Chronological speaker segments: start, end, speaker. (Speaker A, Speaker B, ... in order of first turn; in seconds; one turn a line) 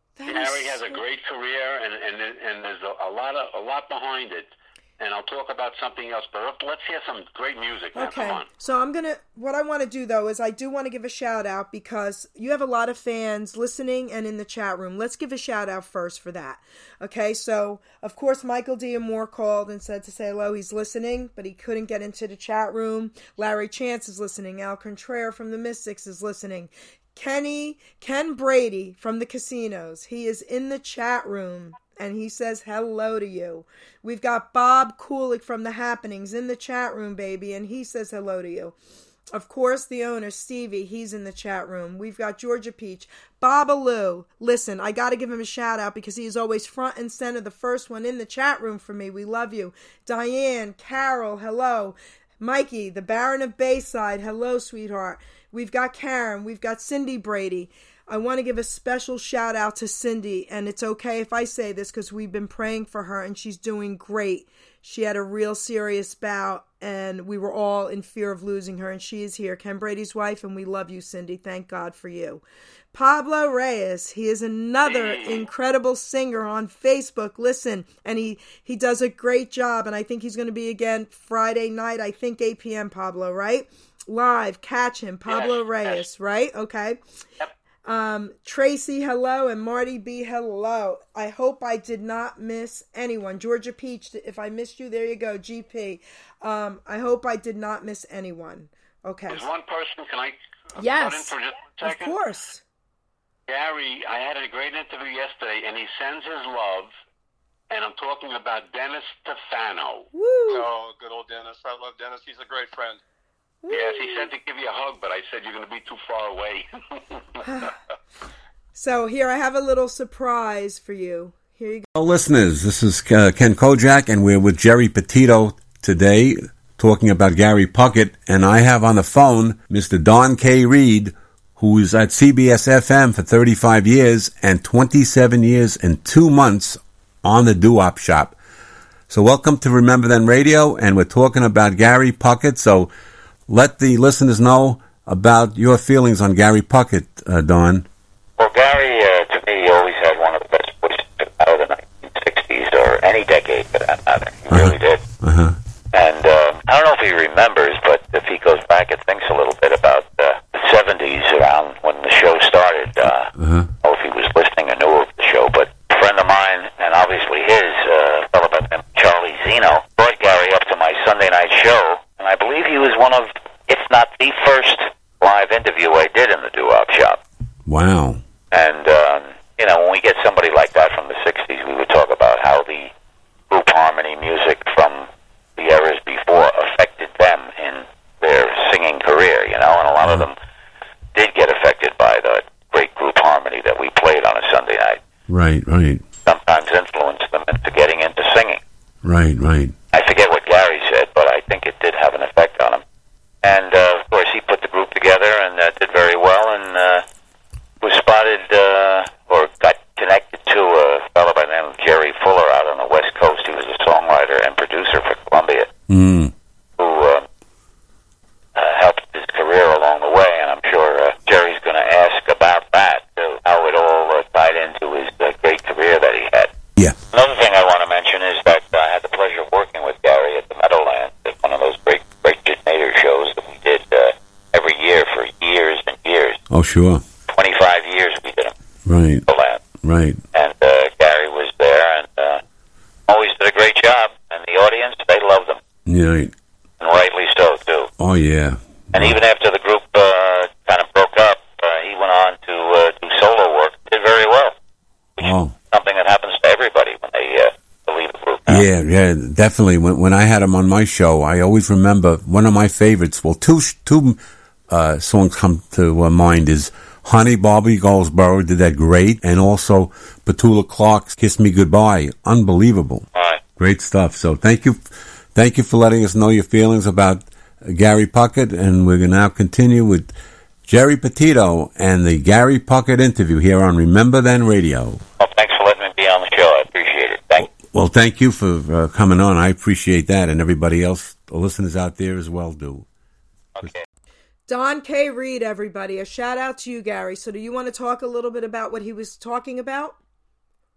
Speaker A: 0.1-1.0
Speaker B: 0.3-8.4
Speaker A: 7.9-38.8
Speaker A: 39.3-87.0
Speaker B: 74.8-75.5
Speaker B: 85.3-86.1
Speaker A: 87.8-99.5
Speaker B: 99.3-102.1
Speaker A: 100.8-102.6
Speaker B: 103.5-106.9
Speaker B: 107.7-110.1
Speaker A: 110.1-110.7
Speaker C: 110.5-113.0
Speaker A: 113.6-114.3
Speaker B: 113.7-117.4
Speaker A: 117.4-117.7
Speaker A: 118.7-121.9
Speaker D: 121.9-138.3
Speaker D: 139.1-142.9
Speaker D: 143.5-147.9
Speaker E: 148.4-155.1
Speaker D: 154.5-155.6
Speaker E: 155.9-163.3
Speaker D: 163.3-163.7
Speaker E: 163.8-177.2
Speaker D: 177.7-178.2
Speaker E: 178.5-182.9
Speaker E: 183.5-190.3
Speaker E: 191.1-195.0
Speaker D: 195.3-196.0
Speaker E: 196.2-198.6
Speaker D: 199.0-199.7
Speaker E: 199.9-202.8
Speaker E: 203.4-207.0
Speaker E: 207.8-215.7
Speaker D: 215.9-216.3
Speaker E: 216.8-217.2
Speaker E: 218.5-226.5
Speaker E: 227.1-236.4
Speaker D: 236.5-237.0
Speaker E: 237.3-238.5
Speaker D: 238.9-239.2
Speaker E: 239.3-239.7
Speaker D: 239.8-240.2
Speaker E: 240.3-242.4
Speaker E: 243.1-245.6
Speaker D: 245.8-246.3
Speaker E: 246.8-247.9
Speaker D: 248.0-249.2
Speaker E: 248.9-254.5
Speaker D: 255.2-255.5
Speaker E: 255.2-258.6
Speaker D: 258.5-264.2
Speaker D: 264.7-273.0
Speaker E: 273.1-273.4
Speaker D: 273.6-280.1
Speaker D: 280.7-285.0
Speaker E: 285.2-287.5
Speaker D: 287.4-292.9
Speaker E: 293.6-293.8
Speaker A: 294.5-300.0